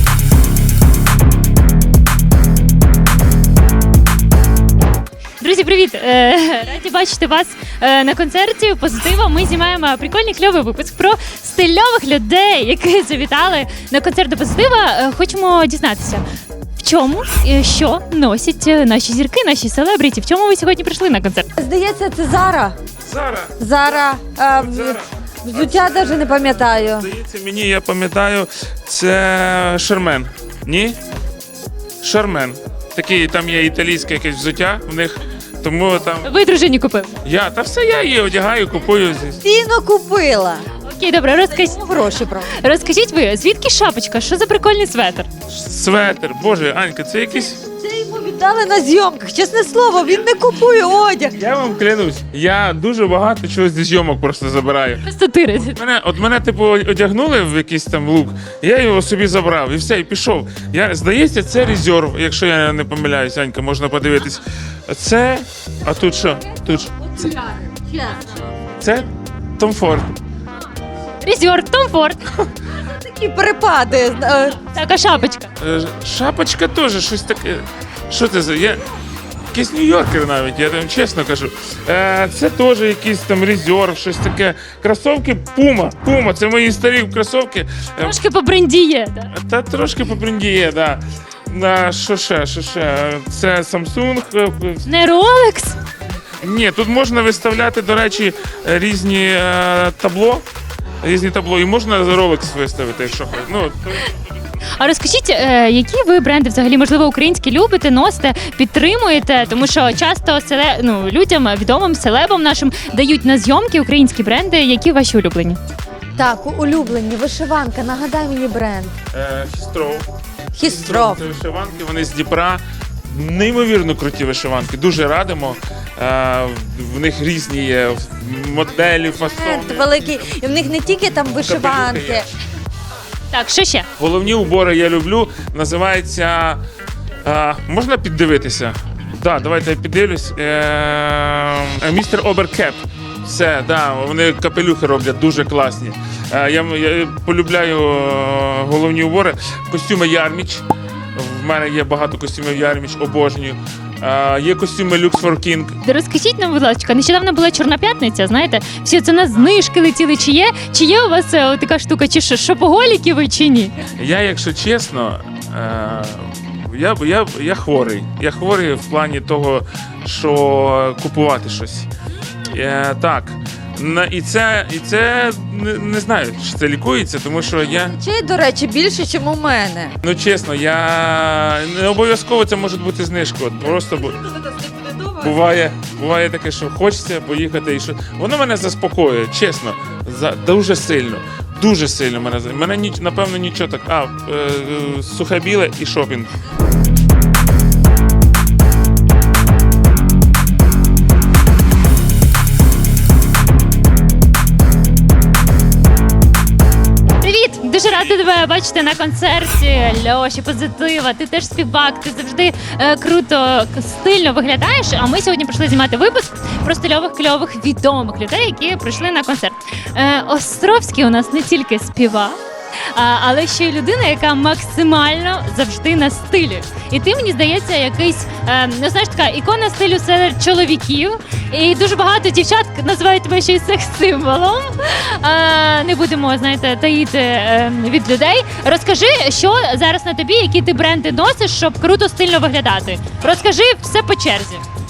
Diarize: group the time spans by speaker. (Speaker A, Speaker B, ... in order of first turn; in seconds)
Speaker A: 5.4-16.2, 16.8-21.5, 36.2-37.1, 40.8-41.8, 42.5-45.3, 55.0-55.8, 71.2-72.3, 74.6-75.5, 88.0-89.3, 94.8-95.8, 104.8-115.6, 133.3-133.9, 155.8-163.7, 207.2-222.4, 222.9-244.6
Speaker B: 21.6-22.8, 23.6-27.1, 39.4-40.6, 41.6-42.5, 47.7-51.3, 67.1-68.5, 72.9-74.6, 116.2-118.9, 120.5-121.2, 129.2-132.2, 177.8-179.9, 184.3-185.4
Speaker C: 23.0-23.5, 24.5-31.0, 32.0-36.3, 37.2-39.4, 45.5-47.6, 51.4-55.0, 55.6-66.9, 68.8-70.2, 75.6-78.8, 79.5-88.2, 89.3-94.8, 96.4-100.4, 101.0-104.1, 119.1-130.3, 131.3-132.2, 134.0-136.6, 137.2-150.6, 151.1-155.8, 164.0-171.9, 172.5-177.9, 180.0-184.2, 185.2-196.3